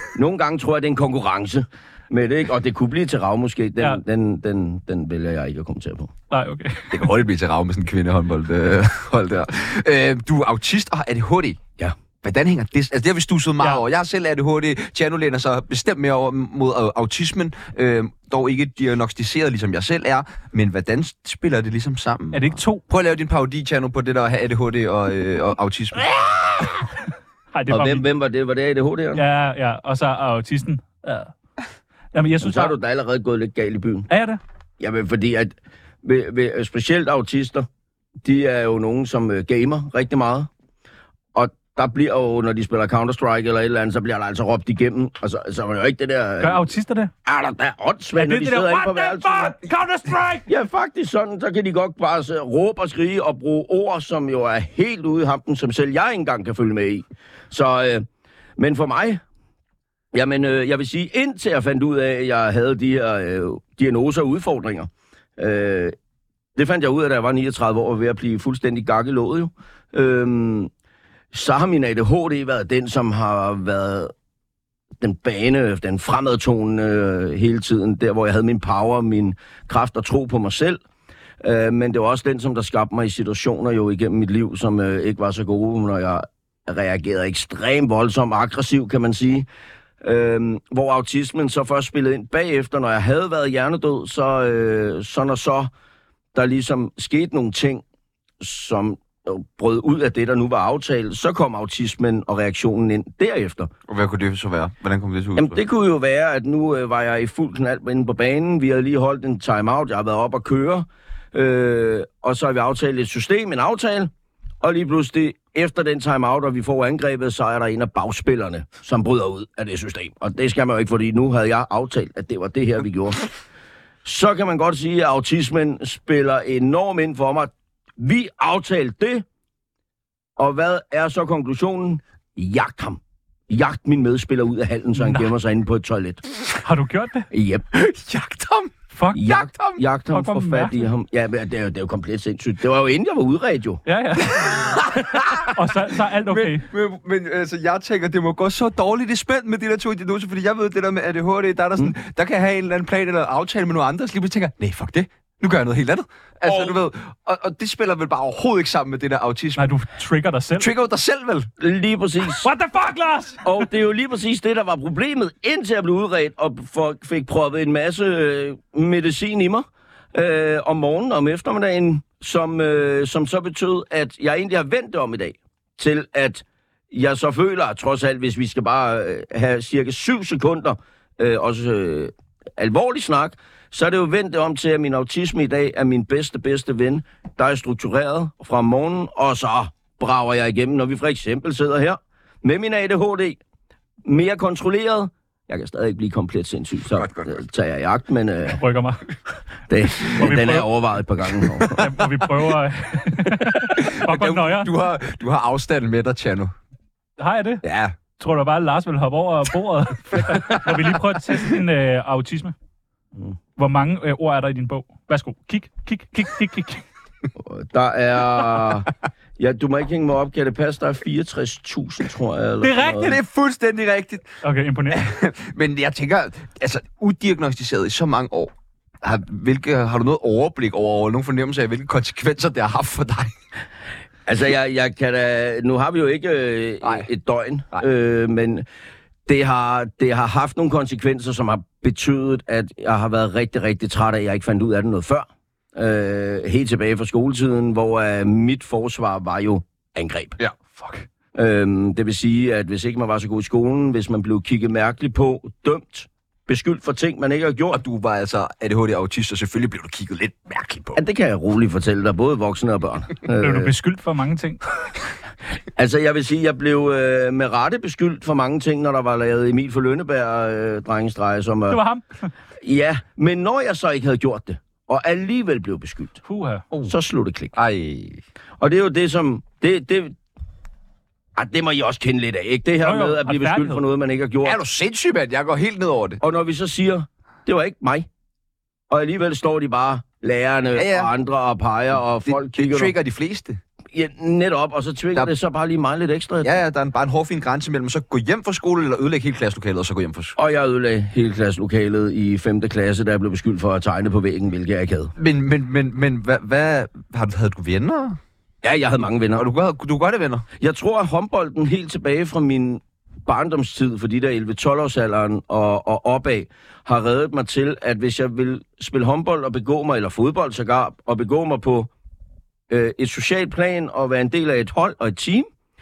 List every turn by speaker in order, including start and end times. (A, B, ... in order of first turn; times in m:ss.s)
0:00.2-0:06.1 A
0:06.3-0:07.0 B
0:06.9-0:11.6 C
0:12.2-0:26.6 C
0:22.3-0:22.8 B
0:27.5-0:28.1 B
0:27.7-0:29.2 A
0:29.2-0:31.3 B
0:32.1-0:32.8 B
0:32.4-0:34.1 A
0:34.1-0:34.4 B
0:34.8-0:37.7 A
0:38.2-0:40.5 A
0:41.3-0:46.6 A
0:46.4-0:47.1 B
0:47.2-0:49.6 A
0:48.2-0:50.5 B
0:50.5-0:58.1 A
0:58.6-0:59.2 A
1:00.1-1:06.0 A
1:06.6-1:10.7 A
1:11.3-1:14.1 A
1:15.0-1:20.8 A
1:21.4-1:29.5 A
1:30.0-1:35.7 A
1:36.3-1:37.8 A
1:38.4-1:43.7 A
1:43.9-1:45.6 C
1:45.4-2:03.2 A
2:04.0-2:09.2 A
2:10.4-2:16.2 A
2:15.0-2:15.3 B
2:16.6-2:17.3 B
2:17.3-2:17.7 A
2:17.7-2:19.8 C
2:18.9-2:19.2 B
2:19.1-2:23.8 A
2:20.1-2:20.9 B
2:23.9-2:24.9 B
2:24.8-2:25.5 C
2:25.5-2:26.7 B
2:26.3-2:39.8 C
2:36.4-2:36.8 A
2:39.6-2:40.7 B
2:40.6-2:41.5 C
2:41.6-2:42.5 A
2:42.4-2:43.5 B
2:43.4-3:13.4 A
3:14.0-3:18.6 A
3:18.5-3:19.0 B
3:19.7-3:21.8 A
3:20.2-3:20.7 B
3:21.7-3:24.7 B
3:23.8-3:26.5 C
3:27.2-3:27.6 B
3:27.6-3:27.9 C
3:28.2-3:32.5 B
3:30.3-3:30.6 C
3:33.6-3:36.8 B
3:37.4-3:43.2 A
3:42.6-3:43.2 B
3:43.0-3:44.3 C
3:44.4-3:45.1 B
3:44.9-3:48.5 C
3:49.0-3:53.3 C
3:54.3-3:58.7 A
3:56.8-3:57.1 C
3:59.3-4:10.4 A
4:11.3-4:17.8 A
4:17.7-4:21.0 C
4:21.0-4:23.7 A
4:23.3-4:24.6 B
4:25.8-4:31.8 A
4:31.7-4:32.3 B
4:32.6-4:36.2 A
4:36.2-4:36.7 B
4:36.9-4:37.6 A
4:37.6-4:38.2 C
4:38.6-4:40.2 A
4:41.4-4:44.6 A
4:42.8-4:43.8 B
4:44.4-4:46.2 C
4:46.2-4:48.1 A
4:48.9-4:52.9 A
4:50.8-4:51.1 C
4:52.3-4:53.6 C
4:53.9-4:56.6 A
4:56.4-5:00.4 C
5:00.4-5:05.1 A
5:05.2-5:08.2 C
5:08.6-5:09.5 A
5:09.4-5:10.5 C
5:10.6-5:21.9 A
5:22.7-5:25.5 A